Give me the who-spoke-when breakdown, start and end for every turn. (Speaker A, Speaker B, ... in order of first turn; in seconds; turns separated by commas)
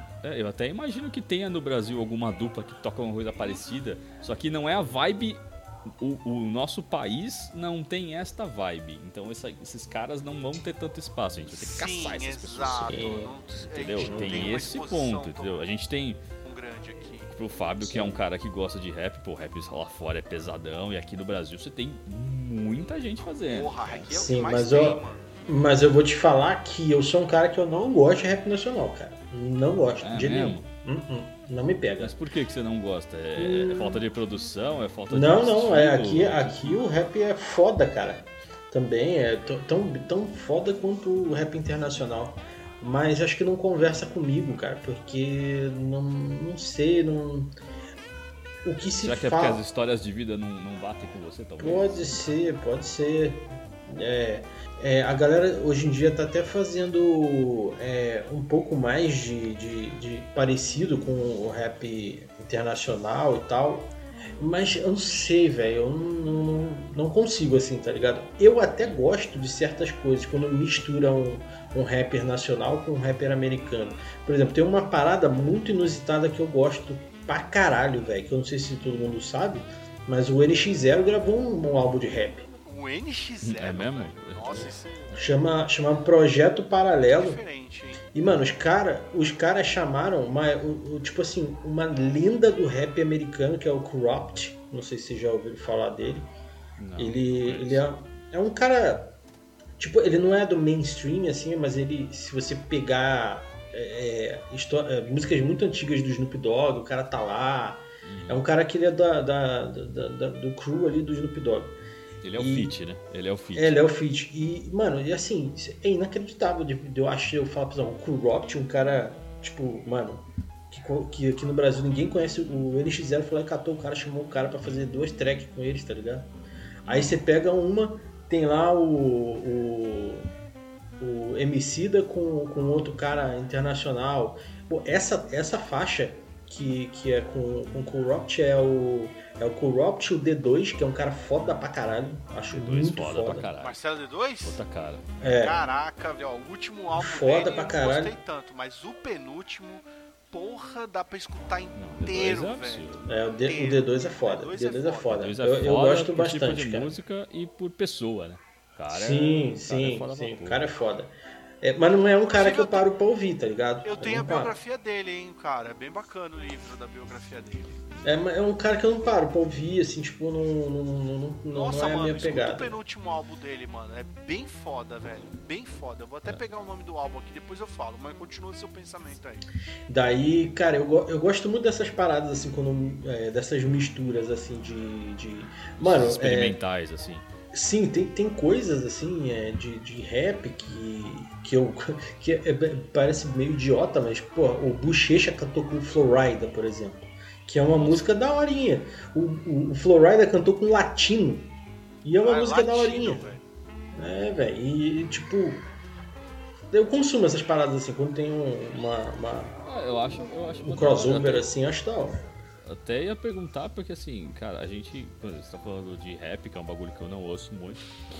Speaker A: 0.2-16.2, Speaker B: 11.5-15.6, Speaker C: 12.8-13.3, Speaker C: 14.0-14.5, Speaker B: 16.4-17.3, Speaker A: 17.3-25.0, Speaker C: 17.8-18.2, Speaker B: 23.2-25.3, Speaker C: 24.1-32.1, Speaker A: 30.0-30.7, Speaker A: 32.0-36.8, Speaker C: 33.4-34.0, Speaker C: 35.1-47.5, Speaker C: 48.6-49.6, Speaker A: 49.0-52.2, Speaker C: 51.6-82.5, Speaker B: 73.5-74.1, Speaker B: 82.7-85.2, Speaker A: 83.4-84.7, Speaker C: 84.5-87.4, Speaker B: 87.1-88.0, Speaker C: 88.1-96.3, Speaker A: 96.8-97.8, Speaker C: 97.0-99.1, Speaker C: 99.8-111.8, Speaker A: 108.0-108.5, Speaker A: 112.2-113.8, Speaker C: 112.4-112.7, Speaker C: 113.5-126.3, Speaker C: 126.8-130.3, Speaker C: 131.0-143.5, Speaker A: 142.5-143.8, Speaker B: 143.6-144.6, Speaker A: 144.4-145.2, Speaker C: 145.2-145.6, Speaker B: 145.2-152.9, Speaker C: 146.9-148.2, Speaker A: 151.7-153.1, Speaker C: 153.1-156.9, Speaker B: 153.4-155.2, Speaker A: 155.1-160.6, Speaker C: 158.9-164.5, Speaker B: 162.3-162.9, Speaker B: 163.8-167.8, Speaker C: 168.0-172.8, Speaker B: 171.5-179.4, Speaker C: 179.9-186.6, Speaker A: 185.8-187.3, Speaker C: 187.5-203.3, Speaker A: 197.7-198.0, Speaker B: 202.2-203.4, Speaker C: 203.9-205.7, Speaker C: 206.7-209.6, Speaker A: 209.6-211.5, Speaker C: 210.6-212.2, Speaker A: 212.6-217.9